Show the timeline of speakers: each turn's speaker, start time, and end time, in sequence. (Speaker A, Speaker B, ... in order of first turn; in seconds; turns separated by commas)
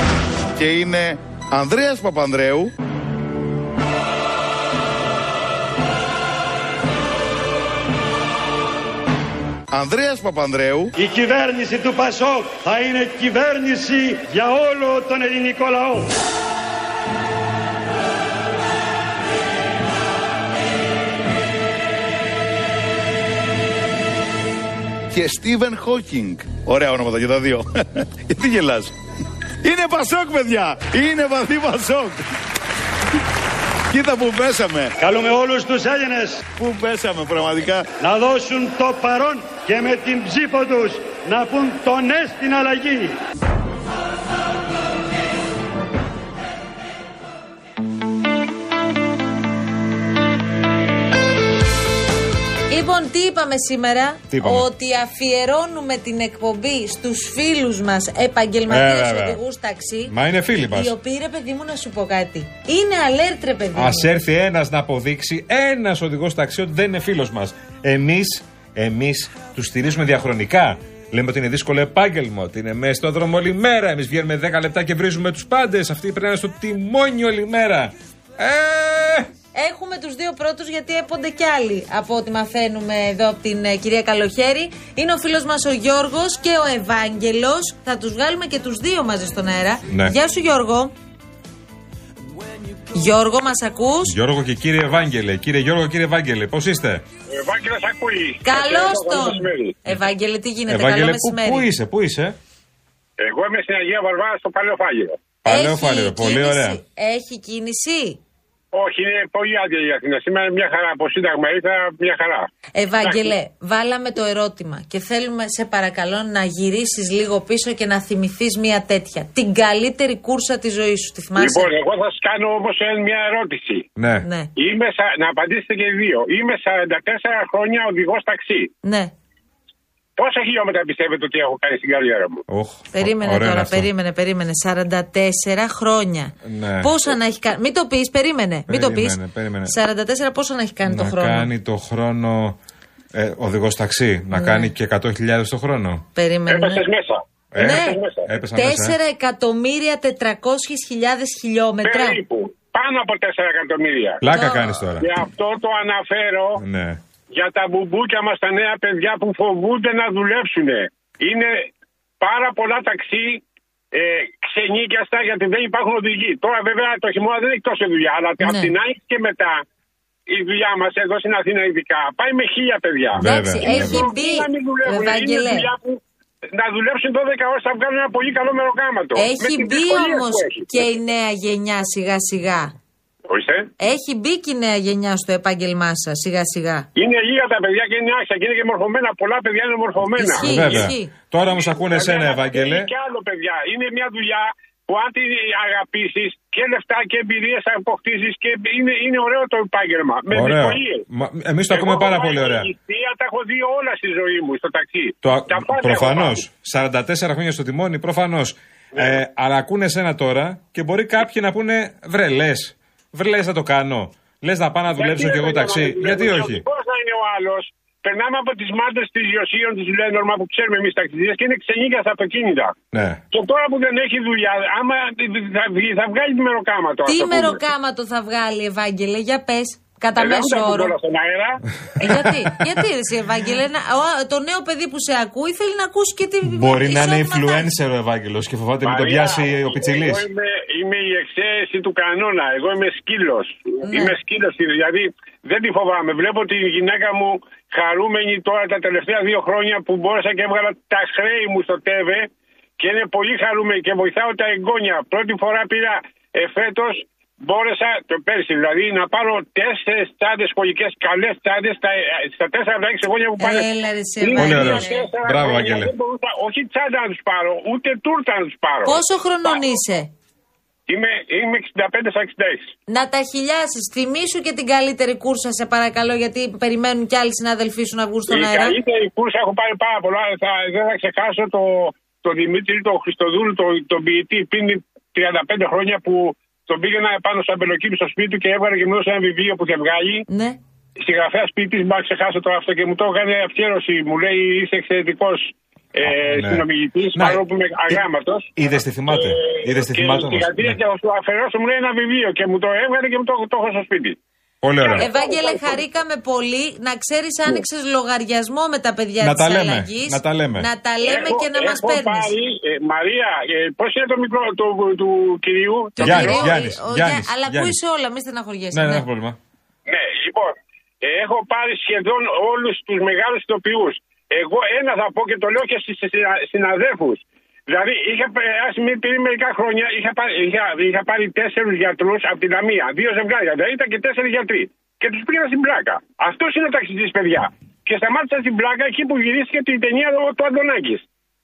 Speaker A: 0.6-2.7, Speaker A: 9.7-10.9, Speaker B: 11.0-16.1, Speaker A: 25.1-28.9, Speaker A: 29.6-32.2, Speaker A: 33.9-34.9, Speaker B: 35.0-36.4, Speaker A: 36.5-37.9, Speaker B: 38.0-43.1, Speaker C: 52.7-64.1, Speaker D: 54.3-54.7, Speaker D: 58.7-59.4, Speaker D: 60.1-61.0, Speaker D: 63.8-79.3, Speaker C: 79.5-90.9, Speaker D: 89.9-90.2, Speaker C: 92.9-94.2, Speaker D: 94.0-97.0, Speaker E: 97.3-99.8, Speaker C: 98.5-101.7, Speaker D: 100.7-102.4, Speaker E: 103.2-105.2, Speaker D: 105.4-106.8, Speaker C: 105.5-108.2, Speaker E: 108.7-112.5, Speaker C: 112.8-121.7, Speaker E: 113.0-113.3, Speaker E: 121.4-123.9, Speaker D: 124.0-124.3, Speaker C: 124.2-124.5, Speaker E: 124.6-128.7, Speaker C: 128.8-129.1, Speaker E: 130.2-132.4, Speaker D: 132.5-133.9, Speaker C: 132.9-141.5, Speaker D: 136.4-137.1, Speaker D: 138.7-139.7, Speaker D: 140.9-142.6, Speaker D: 143.1-146.1, Speaker C: 144.3-144.7, Speaker C: 146.2-146.8, Speaker E: 146.5-148.3, Speaker D: 147.5-149.0, Speaker C: 147.6-148.0, Speaker C: 148.5-152.2, Speaker E: 151.8-154.2, Speaker D: 154.2-155.1, Speaker C: 154.3-154.8, Speaker E: 155.0-156.6, Speaker D: 156.6-157.0, Speaker E: 157.3-161.7, Speaker E: 162.2-169.6, Speaker C: 168.4-168.7, Speaker E: 170.3-176.0, Speaker D: 173.2-174.1, Speaker C: 173.2-175.7, Speaker E: 176.5-180.7, Speaker C: 179.2-182.7, Speaker E: 183.3-183.7, Speaker C: 183.8-186.9, Speaker E: 187.0-190.9, Speaker C: 190.1-191.1, Speaker D: 190.4-192.9, Speaker E: 191.4-201.0, Speaker D: 200.3-202.7, Speaker E: 201.7-206.4, Speaker D: 205.2-216.6, Speaker E: 214.9-222.8, Speaker D: 222.9-223.2, Speaker E: 223.3-227.6, Speaker C: 227.1-230.9, Speaker E: 230.2-231.6, Speaker C: 232.0-237.7, Speaker D: 232.0-232.5, Speaker D: 236.4-240.3, Speaker E: 238.8-263.7, Speaker C: 243.8-244.2, Speaker C: 263.4-265.0, Speaker E: 264.2-269.6, Speaker D: 264.4-265.9, Speaker C: 268.9-270.1, Speaker E: 270.9-272.7, Speaker C: 272.9-278.8, Speaker E: 278.3-290.2, Speaker C: 290.3-290.6, Speaker E: 291.0-304.2, Speaker D: 296.0-298.0, Speaker D: 298.6-300.8, Speaker D: 304.6-305.1, Speaker E: 304.8-305.2, Speaker C: 305.0-312.3, Speaker D: 309.2-310.7, Speaker E: 311.0-316.5, Speaker C: 316.0-319.1, Speaker D: 316.0-317.8, Speaker D: 318.7-319.4, Speaker E: 319.9-341.1